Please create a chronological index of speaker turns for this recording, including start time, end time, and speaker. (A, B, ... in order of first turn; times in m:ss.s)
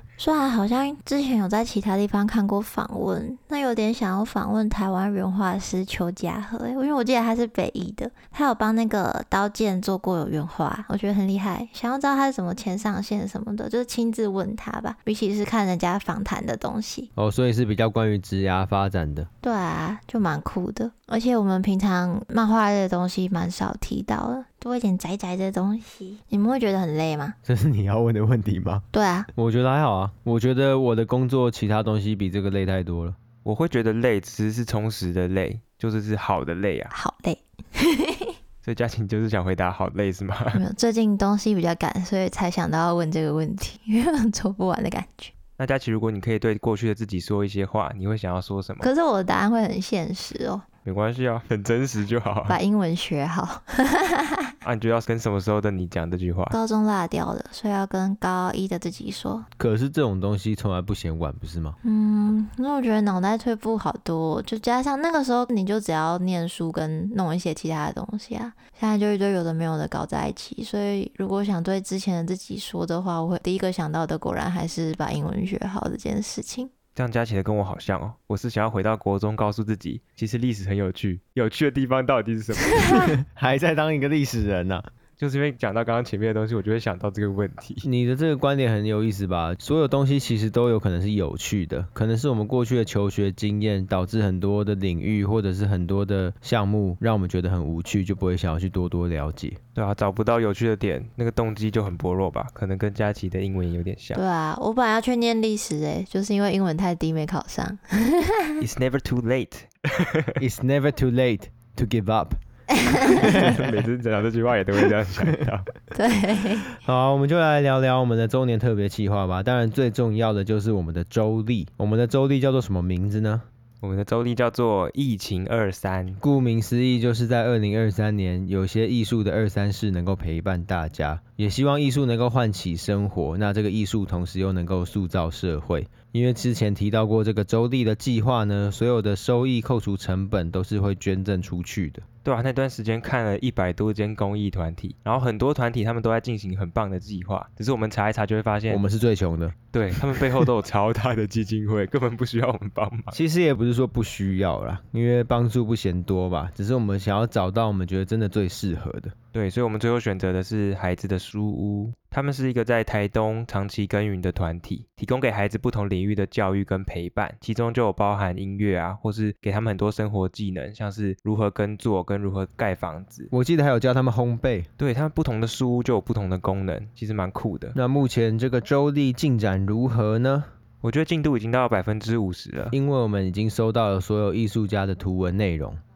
0:00.2-0:17.1 A
0:17.2-0:19.3 B
0:19.4-0:27.4 A
0:27.4-0:28.8 B
0:28.9-0:29.3 A
0:29.3-0:33.2 B
0:33.4-0:36.9 C
0:36.9-0:38.3 A
0:38.6-0:40.6 C
0:40.5-0:45.3 A
0:45.6-0:48.9 C
0:48.8-0:50.6 A
0:50.8-0:52.6 C
0:52.5-0:54.5 A
0:54.6-0:56.6 C
0:56.5-0:59.5 A
0:59.6-1:01.8 B
1:01.8-1:16.7 A
1:16.9-1:23.2 C
1:22.9-1:24.8 B
1:25.2-1:27.9 C
1:27.8-1:39.6 B
1:39.7-1:44.2 C
1:44.2-1:48.6 A
1:48.6-1:50.4 C
1:50.4-1:52.4 B
1:52.9-1:53.8 B
1:53.1-1:55.7 C
1:55.9-1:56.7 A
1:56.8-2:03.4 B
2:03.8-2:06.2 C
2:06.2-2:22.0 B
2:22.2-2:28.8 C
2:28.7-2:29.6 B
2:29.7-2:33.2 C
2:33.1-2:39.1 B
2:39.3-2:53.3 C
2:53.3-2:54.7 B
2:54.8-2:57.8 C
2:57.7-3:00.5 B
3:00.8-3:02.8 C
3:02.7-3:05.8 B